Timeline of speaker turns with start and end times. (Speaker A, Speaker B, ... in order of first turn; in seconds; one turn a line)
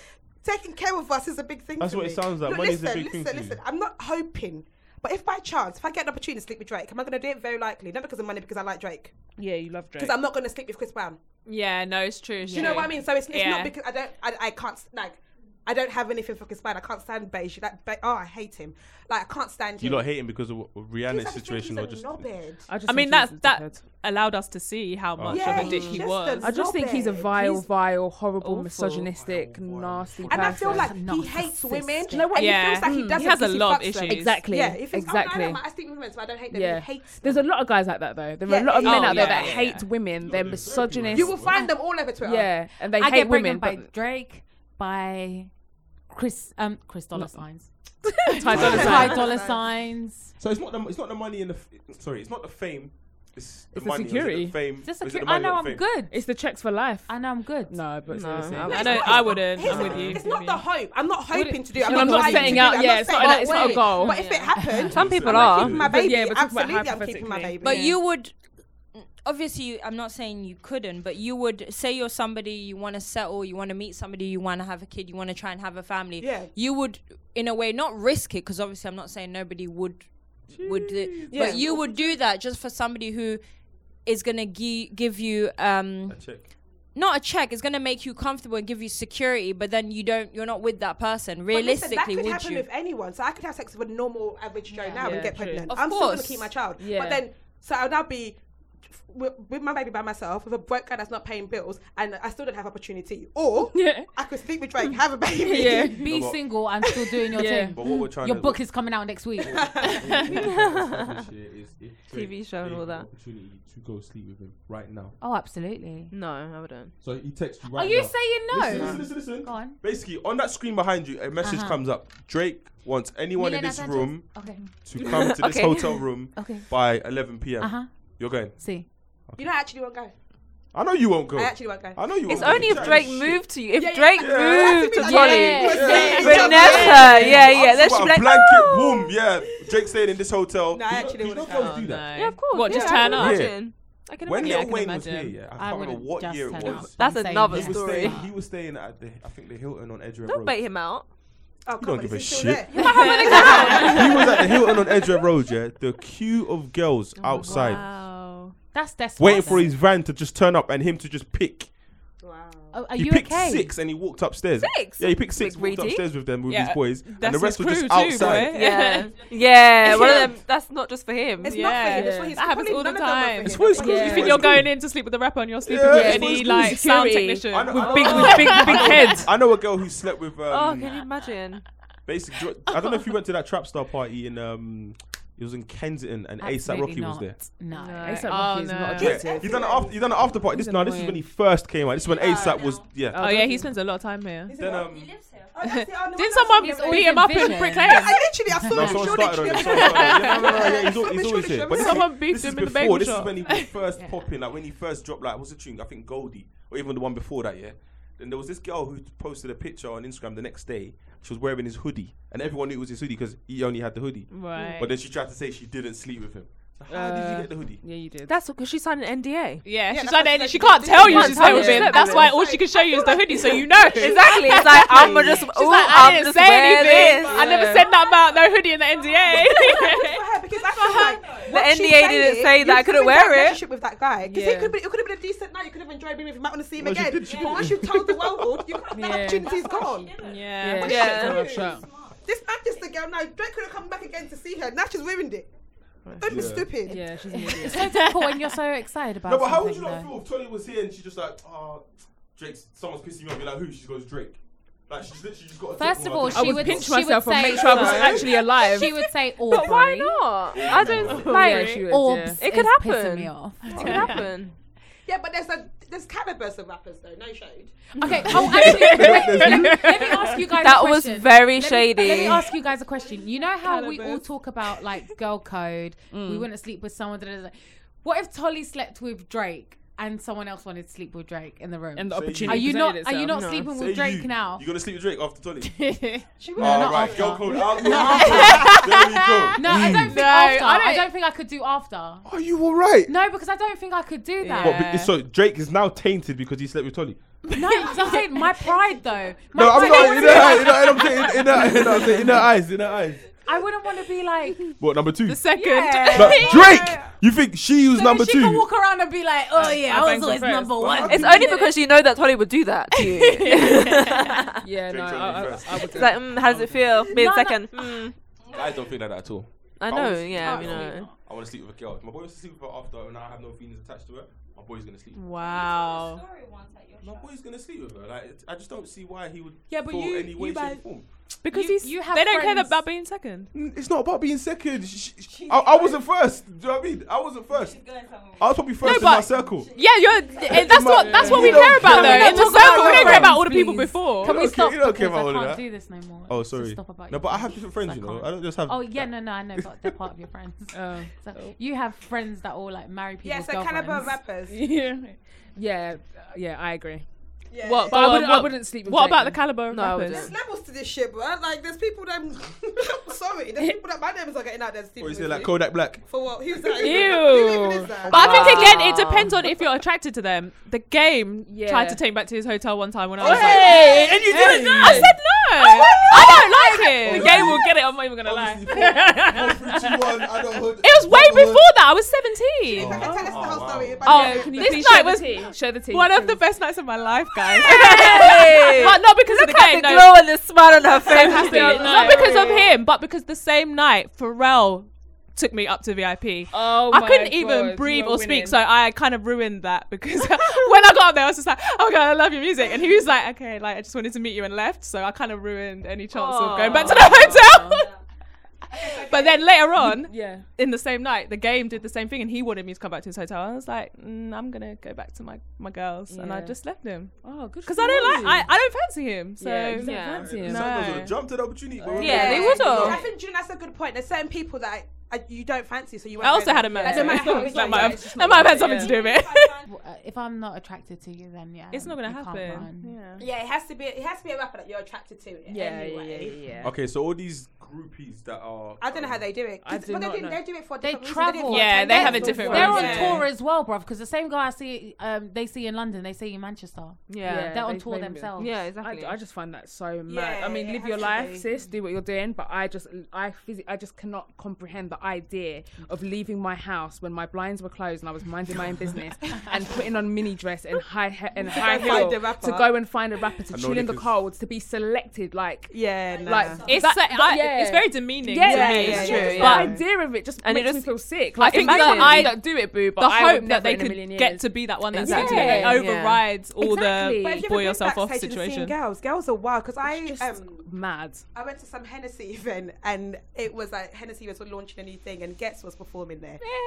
Speaker A: 0.4-9.1
Speaker B: 1.8-3.6
Speaker C: 9.4-10.2
Speaker A: 9.9-11.2
Speaker D: 11.4-13.7
Speaker E: 12.4-12.9
Speaker A: 12.5-20.1
Speaker B: 19.8-22.3
Speaker A: 21.1-22.7
Speaker C: 22.7-23.9
Speaker D: 22.8-26.6
Speaker B: 25.1-25.9
Speaker A: 25.3-27.7
Speaker C: 25.6-30.9
Speaker D: 28.4-29.1
Speaker B: 29.1-30.9
Speaker A: 30.3-37.5
Speaker E: 30.7-32.7
Speaker C: 32.1-33.4
Speaker D: 32.3-34.4
Speaker C: 34.1-35.6
Speaker C: 36.5-41.6
Speaker A: 38.4-39.6
Speaker D: 38.7-39.9
Speaker B: 40.2-41.6
Speaker A: 41.1-42.6
Speaker C: 42.2-43.9
Speaker E: 42.8-45.6
Speaker E: 46.1-50.3
Speaker C: 47.1-49.2
Speaker B: 48.5-49.2
Speaker A: 48.5-49.6
Speaker B: 50.4-55.9
Speaker C: 53.7-54.7
Speaker E: 54.8-56.4
Speaker C: 56.1-59.1
Speaker E: 57.1-57.9
Speaker F: 58.1-58.8
Speaker D: 58.6-60.6
Speaker B: 58.6-60.2
Speaker A: 58.6-67.9
Speaker E: 61.3-63.6
Speaker C: 61.8-64.4
Speaker F: 63.4-65.8
Speaker E: 64.6-65.0
Speaker B: 64.9-66.0
Speaker C: 65.8-67.6
Speaker G: 67.6-83.4
Speaker A: 76.2-76.5
Speaker B: 80.5-81.7
Speaker A: 81.3-82.2
Speaker G: 84.0-92.7
Speaker B: 86.1-86.5
Speaker A: 91.5-106.1
Speaker E: 94.7-95.4
Speaker C: 94.9-97.2
Speaker C: 103.7-104.1
Speaker C: 105.4-106.0
Speaker E: 105.8-110.0
Speaker B: 106.1-106.4
Speaker C: 107.3-107.8
Speaker B: 107.5-115.2
Speaker A: 109.5-110.1
Speaker F: 110.3-111.1
Speaker F: 112.1-113.1
Speaker E: 115.2-116.1
Speaker F: 116.1-116.9
Speaker B: 117.0-129.5
Speaker E: 117.7-119.8
Speaker E: 121.4-121.9
Speaker E: 123.3-124.7
Speaker F: 125.0-126.0
Speaker E: 126.3-126.7
Speaker E: 127.6-128.9
Speaker A: 129.3-130.1
Speaker B: 130.7-133.4
Speaker A: 131.3-133.0
Speaker F: 132.3-139.1
Speaker A: 133.7-137.9
Speaker B: 134.2-134.8
Speaker C: 135.0-137.0
Speaker E: 135.1-136.9
Speaker B: 135.6-142.3
Speaker A: 140.7-141.8
Speaker D: 141.6-145.4
Speaker F: 141.7-144.1
Speaker A: 142.6-143.1
Speaker B: 143.1-150.6
Speaker E: 145.5-148.3
Speaker F: 146.6-148.2
Speaker F: 150.3-151.1
Speaker A: 151.6-155.2
Speaker B: 151.8-152.9
Speaker F: 152.9-153.9
Speaker D: 152.9-154.1
Speaker B: 153.8-157.8
Speaker D: 157.3-158.6
Speaker E: 157.4-157.9
Speaker E: 158.7-159.7
Speaker B: 159.2-161.7
Speaker A: 162.2-162.7
Speaker E: 162.7-163.8
Speaker B: 162.9-168.6
Speaker F: 164.6-166.1
Speaker D: 166.4-169.3
Speaker F: 168.5-171.8
Speaker D: 169.8-170.3
Speaker A: 169.9-170.3
Speaker A: 171.4-174.5
Speaker D: 171.5-179.2
Speaker C: 171.9-172.4
Speaker B: 173.4-174.7
Speaker C: 173.8-174.5
Speaker B: 175.6-176.8
Speaker C: 175.9-179.3
Speaker B: 177.5-181.1
Speaker F: 180.5-181.6
Speaker B: 182.1-187.4
Speaker E: 186.4-188.4
Speaker F: 187.7-189.4
Speaker C: 188.0-189.6
Speaker D: 188.3-189.2
Speaker A: 188.9-190.3
Speaker B: 189.0-193.3
Speaker C: 190.5-191.2
Speaker G: 192.2-192.9
Speaker C: 193.1-193.7
Speaker D: 193.1-194.6
Speaker A: 194.5-202.1
Speaker B: 194.6-195.2
Speaker D: 195.6-198.3
Speaker E: 196.6-199.3
Speaker B: 198.6-217.8
Speaker D: 199.5-200.7
Speaker F: 201.7-203.3
Speaker D: 201.9-203.7
Speaker D: 214.3-214.9
Speaker F: 214.5-214.8
Speaker C: 216.9-218.3
Speaker F: 218.2-219.6
Speaker D: 219.6-231.4
Speaker A: 219.9-224.1
Speaker F: 221.0-222.4
Speaker C: 221.1-222.2
Speaker F: 224.0-227.7
Speaker A: 226.8-227.8
Speaker C: 227.3-227.9
Speaker A: 229.3-245.5
Speaker F: 231.4-233.6
Speaker C: 234.2-234.7
Speaker B: 236.8-238.8
Speaker C: 238.9-239.6
Speaker D: 240.1-241.6
Speaker C: 240.6-241.8
Speaker F: 240.8-241.6
Speaker A: 246.1-247.1
Speaker B: 246.2-246.7
Speaker C: 246.8-248.1
Speaker E: 247.3-250.1
Speaker B: 249.2-258.5
Speaker E: 255.8-260.4
Speaker C: 256.3-259.1
Speaker F: 259.4-261.9
Speaker B: 260.5-261.5
Speaker D: 261.0-261.9
Speaker C: 261.2-262.4
Speaker E: 261.7-264.2
Speaker F: 262.4-264.5
Speaker D: 263.6-264.3
Speaker A: 265.1-267.9
Speaker E: 267.9-284.7
Speaker D: 268.1-268.7
Speaker B: 268.1-270.0
Speaker C: 268.3-269.9
Speaker F: 270.5-272.5
Speaker A: 271.9-272.5
Speaker D: 273.6-274.3
Speaker C: 276.1-276.5
Speaker C: 281.9-283.3
Speaker B: 282.1-282.8
Speaker F: 283.3-283.7
Speaker B: 283.6-285.8
Speaker A: 286.4-288.7
Speaker E: 286.6-288.9
Speaker B: 286.6-290.2
Speaker D: 288.0-288.7
Speaker E: 289.5-292.3
Speaker D: 289.6-291.1
Speaker B: 292.2-293.1
Speaker E: 293.1-294.9
Speaker D: 294.4-295.1
Speaker B: 294.6-297.2
Speaker E: 297.5-302.3
Speaker D: 297.6-298.0
Speaker B: 299.5-303.2
Speaker E: 303.4-304.8
Speaker B: 304.8-305.4
Speaker D: 305.2-307.0
Speaker E: 305.6-307.0
Speaker B: 306.1-308.7
Speaker E: 307.9-311.6
Speaker C: 309.5-311.7
Speaker B: 310.8-311.5
Speaker F: 311.1-314.6
Speaker D: 313.3-314.4
Speaker C: 314.6-317.2
Speaker B: 314.9-316.2
Speaker F: 315.9-318.1
Speaker E: 317.0-318.1
Speaker B: 318.5-325.2
Speaker F: 319.8-321.1
Speaker E: 320.4-321.1
Speaker D: 325.1-326.3
Speaker B: 327.0-331.1
Speaker A: 329.7-330.8
Speaker D: 331.4-333.5
Speaker E: 331.5-332.8
Speaker B: 333.5-339.8
Speaker D: 338.8-344.4
Speaker B: 340.4-343.4
Speaker C: 340.8-344.7
Speaker E: 342.0-343.3
Speaker B: 344.2-350.0
Speaker E: 344.2-354.2
Speaker C: 350.7-351.1
Speaker A: 353.2-354.6
Speaker C: 354.4-357.1
Speaker A: 357.5-358.1
Speaker D: 357.6-360.3
Speaker C: 357.9-359.4
Speaker F: 359.7-360.3
Speaker A: 360.1-368.6
Speaker B: 365.0-366.0
Speaker C: 366.8-368.8
Speaker D: 366.8-367.4
Speaker D: 368.0-378.0
Speaker F: 368.1-369.4
Speaker C: 371.5-372.0
Speaker C: 373.2-375.1
Speaker A: 373.2-373.8
Speaker B: 373.3-375.1
Speaker B: 375.8-376.4
Speaker C: 375.8-379.9
Speaker B: 377.0-377.6
Speaker B: 378.2-381.7
Speaker D: 379.0-379.3
Speaker D: 380.8-383.4
Speaker A: 382.7-384.8
Speaker B: 382.8-384.1
Speaker D: 384.0-390.2
Speaker C: 384.1-386.4
Speaker C: 387.5-389.0
Speaker F: 387.6-392.3
Speaker D: 391.0-407.9
Speaker C: 391.1-392.7
Speaker C: 396.5-398.6
Speaker F: 406.1-407.7
Speaker C: 406.6-407.7
Speaker D: 408.7-421.2
Speaker C: 409.8-410.5
Speaker C: 416.1-418.5
Speaker C: 419.4-420.7
Speaker F: 419.8-420.3
Speaker B: 420.1-422.9
Speaker C: 421.8-422.9
Speaker A: 421.9-428.1
Speaker F: 421.9-423.0
Speaker D: 422.2-422.9
Speaker D: 426.2-429.6
Speaker C: 426.7-429.1
Speaker E: 429.6-433.0
Speaker D: 431.7-433.2
Speaker A: 433.2-436.5
Speaker C: 435.5-436.7
Speaker B: 436.6-439.2
Speaker A: 438.8-443.3
Speaker C: 439.6-440.4
Speaker E: 440.8-448.7
Speaker D: 441.4-443.2
Speaker C: 442.2-443.1
Speaker F: 447.1-447.6
Speaker C: 447.2-475.9
Speaker F: 448.4-449.2
Speaker A: 450.1-451.5
Speaker A: 461.4-462.7
Speaker B: 463.5-464.1
Speaker A: 465.7-466.6
Speaker D: 466.6-469.8
Speaker A: 468.4-469.8
Speaker F: 468.7-472.3
Speaker D: 471.4-478.8
Speaker F: 474.9-476.3
Speaker C: 476.5-477.4
Speaker A: 477.1-480.7
Speaker C: 479.8-481.2
Speaker A: 481.3-486.4